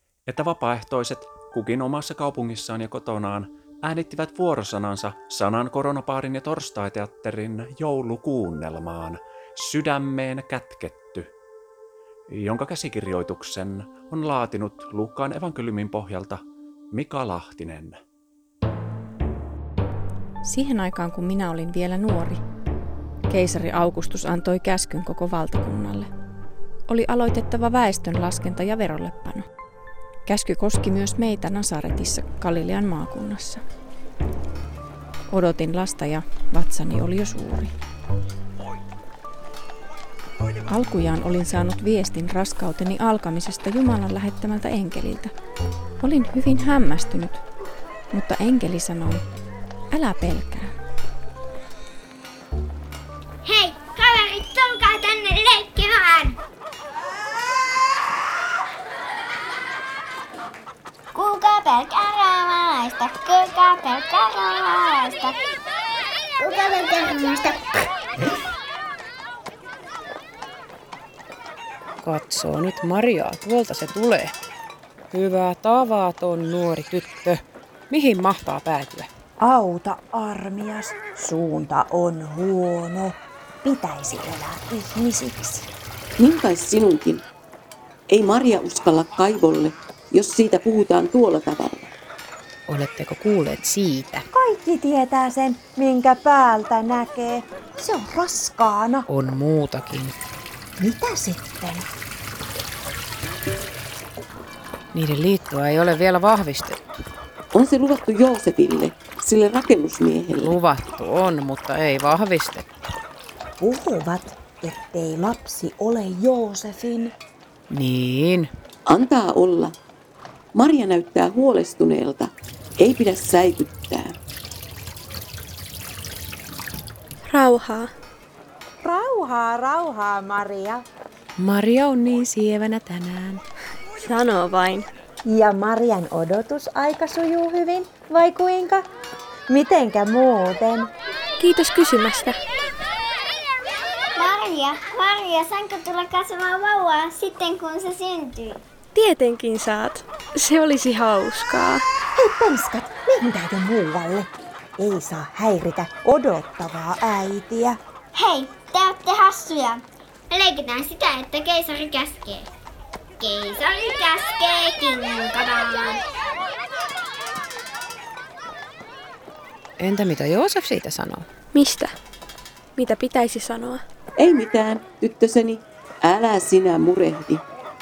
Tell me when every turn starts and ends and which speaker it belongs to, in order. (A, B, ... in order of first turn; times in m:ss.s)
0:00.3-0:11.3 A
0:12.3-0:16.4 A
0:16.9-0:18.0 A
0:20.4-0:22.4 B
0:23.3-0:26.1 B
0:26.9-0:29.5 B
0:30.2-0:33.6 B
0:35.3-0:37.7 B
0:40.7-0:45.3 B
0:46.0-0:47.4 B
0:48.1-0:49.2 B
0:49.9-0:50.7 B
0:53.4-0:56.4 C
1:01.1-1:05.3 C
1:06.4-1:07.9 C
1:12.0-1:14.3 D
1:15.1-1:19.1 D
1:19.4-1:25.7 E
1:26.2-1:27.2 F
1:28.1-1:31.9 F
1:32.7-1:34.2 D
1:34.3-1:39.0 E
1:39.1-1:40.1 D
1:40.8-1:41.8 E
1:44.9-1:46.8 D
1:47.5-1:50.5 F
1:50.4-1:52.6 D
1:53.6-1:57.1 E
1:57.7-1:58.5 D
1:58.9-1:59.7 F
2:00.5-2:04.1 F
2:07.2-2:07.9 G
2:08.8-2:10.8 E
2:11.4-2:13.4 D
2:14.0-2:14.9 G
2:15.2-2:18.8 E
2:19.5-2:20.9 E
2:21.4-2:22.4 G
2:24.2-2:28.6 C
2:28.9-2:31.8 G
2:32.2-2:34.3 E
2:34.8-2:37.8 E
2:38.1-2:42.5 C
2:43.2-2:46.0 C
2:49.8-2:51.2 D
2:51.5-2:51.9 G
2:52.8-2:53.8 G
2:54.2-2:57.4 F